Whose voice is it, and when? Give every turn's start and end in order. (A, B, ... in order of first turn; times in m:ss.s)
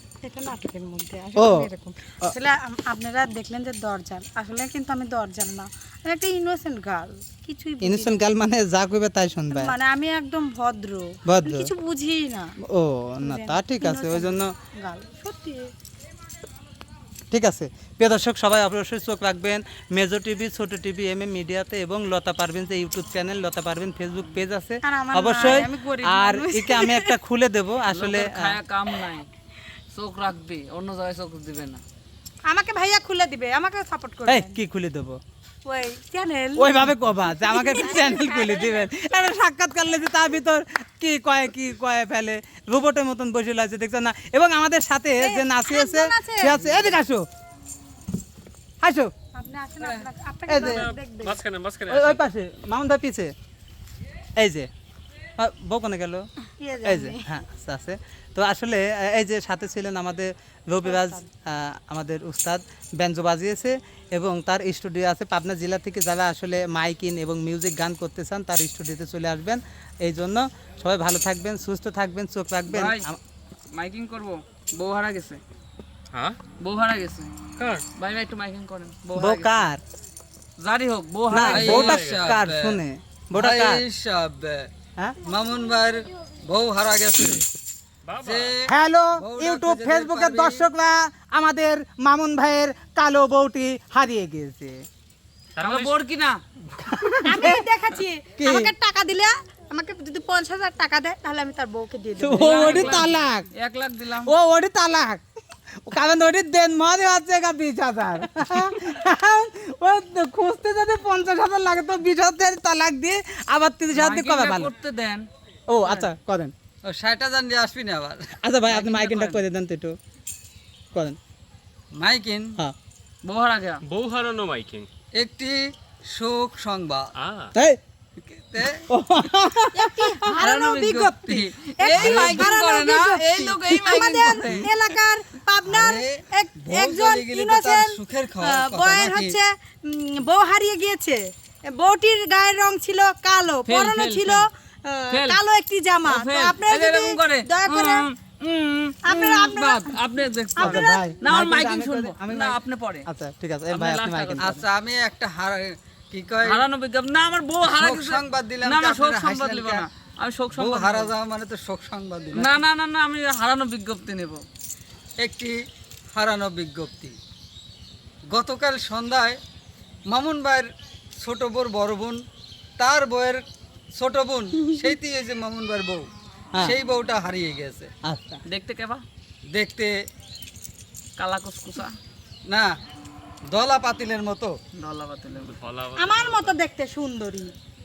0:00.2-0:08.2 A
0:01.4-0:01.6 B
0:07.8-0:09.7 B
0:09.5-0:12.5 A
0:11.3-0:11.7 B
0:12.7-0:14.5 B
0:13.2-0:15.7 A
0:17.3-0:28.5 B
0:24.8-0:27.2 A
0:27.9-0:29.3 C
0:29.9-0:31.8 C
0:32.5-0:34.6 A
0:34.3-0:35.2 B
0:35.6-0:38.8 A
0:36.6-0:47.2 B
0:45.2-0:47.0 A
0:48.8-0:49.1 B
0:49.3-0:51.4 A
0:50.5-0:50.9 B
0:50.6-0:52.2 D
0:51.9-0:53.3 B
0:54.4-0:54.7 B
0:55.4-0:56.2 B
0:56.6-0:57.2 A
0:56.8-1:13.2 B
1:00.8-1:01.2 A
1:12.7-1:13.0 C
1:13.7-1:15.4 C
1:16.1-1:16.4 D
1:16.6-1:17.3 C
1:17.6-1:17.8 D
1:18.0-1:19.7 C
1:19.2-1:19.8 B
1:20.6-1:21.8 C
1:21.3-1:23.8 B
1:21.4-1:22.8 E
1:21.6-1:22.3 D
1:23.3-1:24.7 E
1:25.2-1:27.4 E
1:28.0-1:28.5 D
1:28.2-1:30.7 E
1:28.7-1:34.8 B
1:35.6-1:36.0 D
1:35.6-1:36.4 C
1:36.8-1:37.6 B
1:37.2-1:43.1 A
1:38.4-1:38.7 B
1:42.2-1:43.5 B
1:42.4-1:44.3 C
1:44.2-1:45.2 B
1:45.8-1:54.7 B
1:53.9-1:55.3 C
1:55.7-1:56.5 B
1:56.8-1:58.4 E
1:58.4-1:59.9 B
1:58.7-1:59.4 C
2:01.9-2:02.6 E
2:03.2-2:03.8 C
2:03.8-2:04.9 D
2:05.2-2:07.1 E
2:07.2-2:07.5 D
2:08.2-2:08.8 E
2:08.9-2:10.2 B
2:09.7-2:28.1 A
2:10.4-2:11.1 C
2:10.5-2:14.7 E
2:11.7-2:14.7 C
2:15.6-2:19.4 E
2:23.6-2:24.4 C
2:25.1-2:25.4 C
2:26.0-2:33.0 C
2:29.0-2:29.9 A
2:30.6-2:31.0 A
2:30.6-2:34.6 B
2:33.7-2:34.4 C
2:34.4-2:36.6 E
2:36.4-2:41.1 C
2:37.6-2:39.9 E
2:40.5-2:42.6 E
2:42.3-2:44.4 C
2:45.2-2:45.6 E
2:46.1-2:47.2 E
2:48.3-2:49.4 E
2:50.1-2:52.2 E
2:52.8-2:57.9 E
2:58.0-2:58.4 B
2:58.5-2:59.0 C
2:59.5-2:59.9 E
3:01.2-3:02.0 C
3:02.4-3:02.7 E
3:03.5-3:04.6 E
3:04.7-3:05.5 C
3:05.4-3:06.5 D
3:06.0-3:07.5 A